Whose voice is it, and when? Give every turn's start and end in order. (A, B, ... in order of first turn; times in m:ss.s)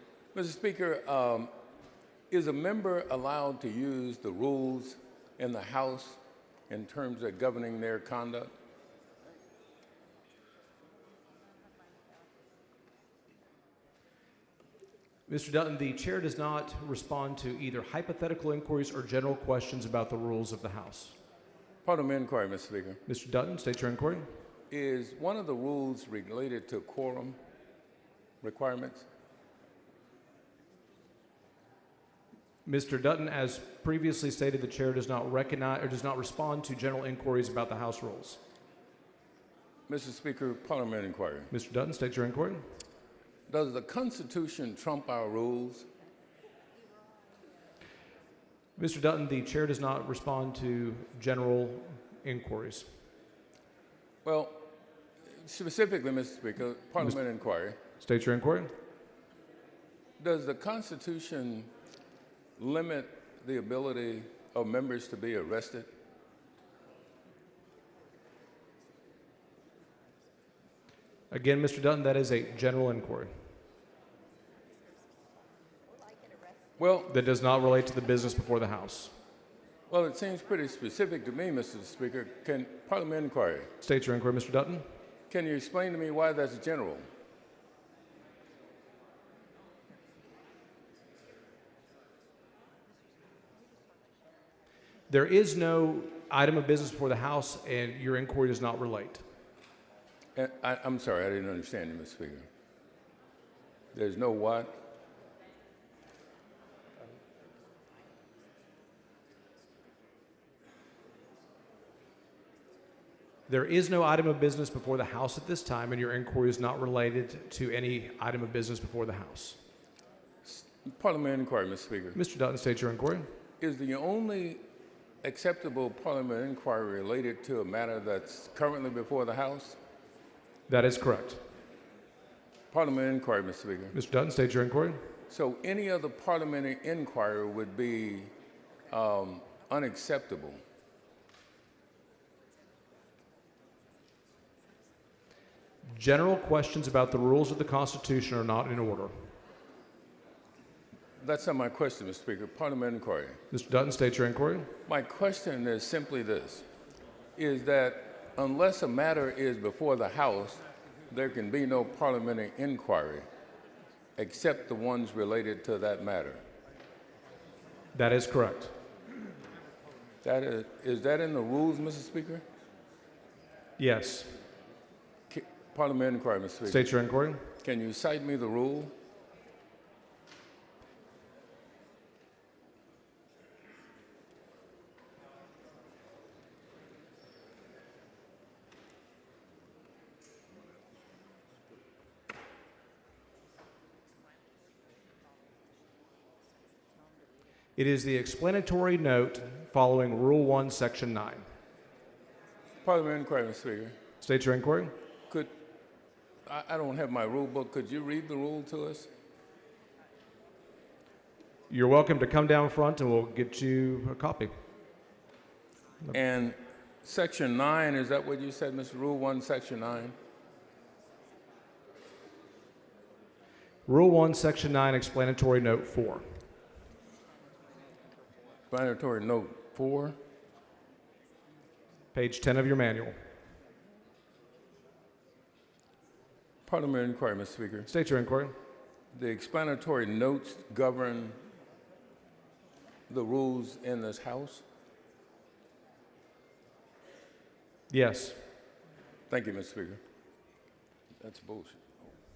0:00.3-0:01.5 A
0:02.3-0:08.5 A
0:15.3-0:21.2 B
0:21.8-0:23.0 A
0:23.1-0:24.3 B
0:24.7-0:27.4 A
0:28.4-0:29.1 A
0:32.6-0:38.4 B
0:39.9-0:41.5 A
0:41.5-0:42.6 B
0:43.5-0:45.9 A
0:48.8-0:52.9 B
0:54.2-0:54.6 A
0:55.4-0:57.8 A
0:58.0-0:58.7 B
1:00.2-1:01.7 A
1:02.6-1:05.9 A
1:11.3-1:13.3 B
1:16.8-1:17.1 A
1:17.1-1:19.1 B
1:19.9-1:23.7 A
1:23.8-1:24.8 B
1:25.3-1:27.1 A
1:35.1-1:39.2 B
1:40.4-1:42.5 A
1:43.9-1:44.8 A
1:53.5-1:59.6 B
2:00.4-2:02.2 A
2:02.1-2:03.3 B
2:03.6-2:04.6 A
2:05.2-2:09.8 A
2:10.7-2:11.4 B
2:12.7-2:13.9 A
2:13.9-2:15.1 B
2:15.3-2:18.3 A
2:18.9-2:20.6 A
2:25.9-2:29.2 B
2:31.2-2:33.4 A
2:33.5-2:34.7 B
2:34.9-2:36.6 A
2:37.4-2:43.3 A
2:44.2-2:46.4 A
2:47.9-2:48.7 B
2:50.2-2:52.4 A
2:53.8-2:54.4 B
2:55.3-2:56.9 A
2:56.6-2:57.5 B
2:57.6-2:58.9 A
3:17.8-3:21.5 B
3:22.8-3:24.0 A
3:24.2-3:24.9 B
3:26.4-3:29.1 A
3:31.7-3:34.5 B
3:36.1-3:40.1 A
3:43.9-3:46.3 B
3:48.7-3:50.2 A
3:52.1-3:53.2 B
3:56.7-3:57.9 A
3:57.9-3:58.6 B
3:59.1-4:01.4 A
4:03.1-4:04.6 A
4:07.9-4:08.4 B
4:09.3-4:10.0 A
4:11.2-4:11.8 A